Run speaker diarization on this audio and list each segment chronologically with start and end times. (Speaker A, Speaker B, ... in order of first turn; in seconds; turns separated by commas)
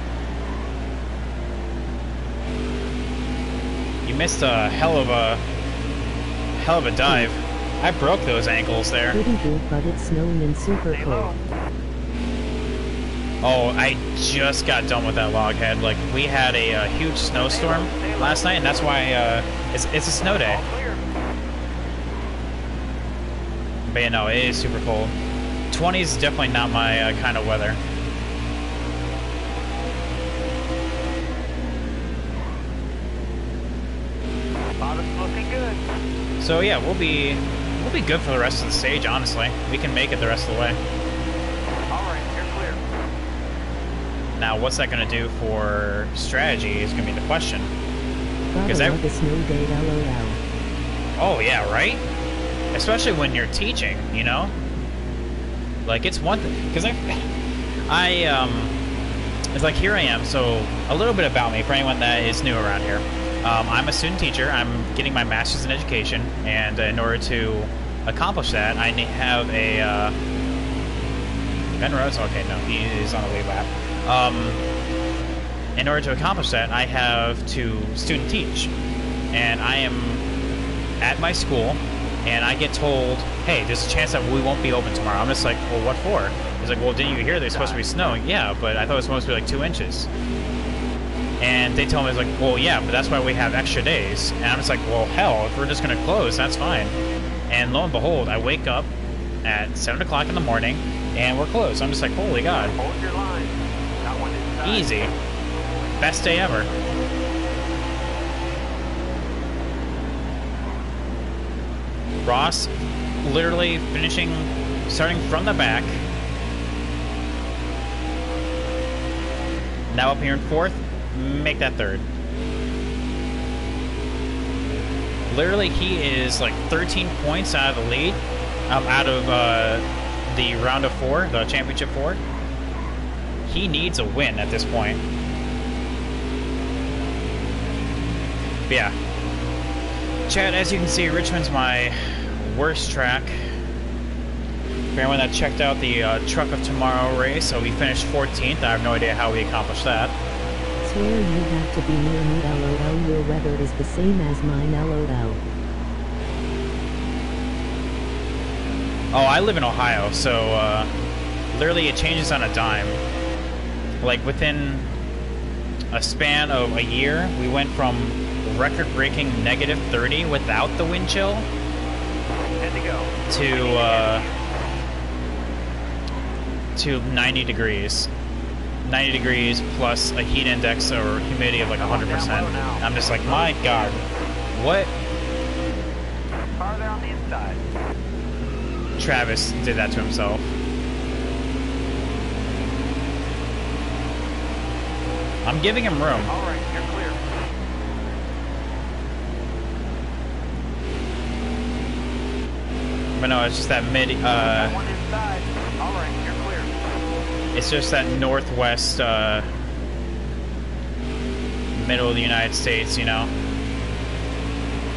Speaker A: 4.0-5.4, Speaker A: 6.6-9.2, Speaker B: 9.1-11.3, Speaker C: 10.9-11.4, Speaker A: 13.4-20.6, Speaker C: 17.3-18.6, Speaker C: 20.3-21.0, Speaker A: 23.9-25.1, Speaker A: 25.7-27.8, Speaker C: 34.8-35.8, Speaker A: 36.4-40.8, Speaker C: 41.9-42.8, Speaker A: 44.3-47.7, Speaker B: 48.5-50.4, Speaker A: 48.7-49.0, Speaker A: 51.2-52.0, Speaker A: 52.7-54.5, Speaker A: 55.9-57.3, Speaker A: 57.9-58.7, Speaker A: 59.5-70.1, Speaker A: 71.8-74.6, Speaker A: 75.8-78.7, Speaker A: 79.3-80.2, Speaker A: 81.0-90.1, Speaker C: 87.3-87.9, Speaker A: 91.4-97.0, Speaker A: 97.5-98.9, Speaker A: 99.4-102.8, Speaker C: 102.8-105.0, Speaker A: 104.6-105.1, Speaker A: 106.0-106.7, Speaker A: 112.2-116.0, Speaker A: 119.9-122.0, Speaker A: 125.3-132.2, Speaker A: 133.4-135.0, Speaker A: 138.7-138.9, Speaker A: 140.3-143.5, Speaker A: 144.9-150.1, Speaker B: 150.8-155.4, Speaker A: 159.1-160.9, Speaker A: 161.5-163.0, Speaker A: 164.0-164.9, Speaker A: 165.9-171.5, Speaker C: 172.6-174.4, Speaker A: 173.3-174.2, Speaker A: 176.8-178.1, Speaker A: 178.8-184.0, Speaker C: 181.8-184.0, Speaker A: 184.5-184.9, Speaker C: 186.6-187.6, Speaker A: 189.0-190.5, Speaker A: 195.4-196.3, Speaker C: 196.2-197.2, Speaker A: 203.1-204.8, Speaker C: 204.3-206.8, Speaker A: 207.5-209.4, Speaker A: 211.7-213.3